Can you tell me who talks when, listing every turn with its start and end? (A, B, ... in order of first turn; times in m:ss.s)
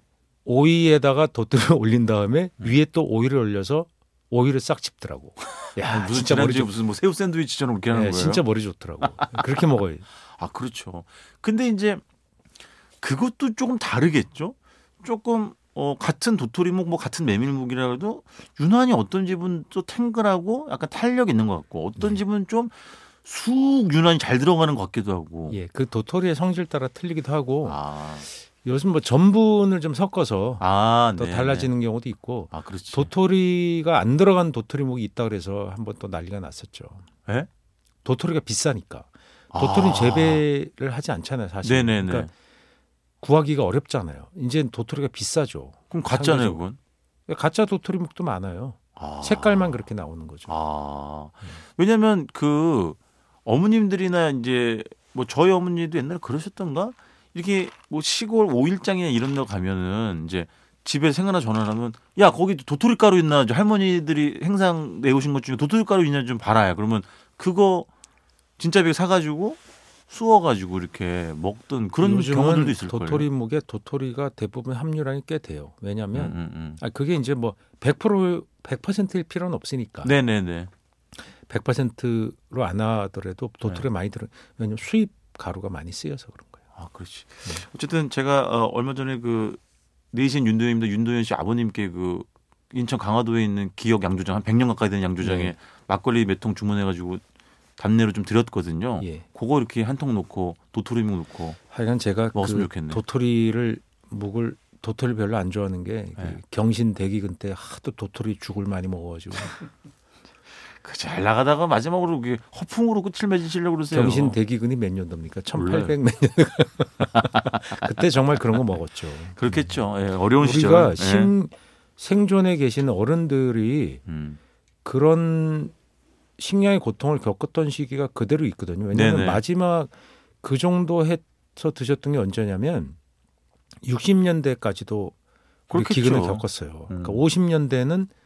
0:00.4-0:06.7 A
0:05.8-0:08.4 B
0:07.9-0:10.1 A
0:09.0-0:09.5 B
0:10.2-0:12.0 B
0:13.0-0:25.6 B
0:25.5-0:27.8 A
0:27.6-0:28.3 B
0:28.3-0:37.0 A
0:30.6-0:31.7 B
0:32.5-0:33.1 B
0:38.0-0:42.3 A
0:39.5-0:40.4 B
0:41.6-0:42.3 B
0:43.2-0:46.6 A
0:45.9-0:46.8 B
0:47.3-0:50.6 A
0:49.0-0:49.8 B
0:50.5-1:07.9 B
1:08.6-1:13.3 B
1:12.0-1:20.2 A
1:16.1-1:16.8 B
1:20.0-1:20.7 B
1:21.3-1:26.6 A
1:26.8-1:29.6 B
1:30.1-1:37.2 B
1:35.2-1:35.5 A
1:37.8-1:41.6 B
1:39.0-1:39.3 A
1:41.7-1:49.6 A
1:42.3-1:43.0 B
1:50.8-1:54.4 B
1:53.9-1:59.7 A
1:55.5-1:56.0 B
1:57.2-1:57.7 B
1:59.4-2:01.3 B
2:00.4-2:04.0 A
2:04.1-2:04.4 B
2:04.8-2:05.7 A
2:06.4-2:13.0 A
2:08.9-2:09.4 B
2:13.8-2:15.2 A
2:15.7-2:17.3 B
2:15.7-2:18.1 A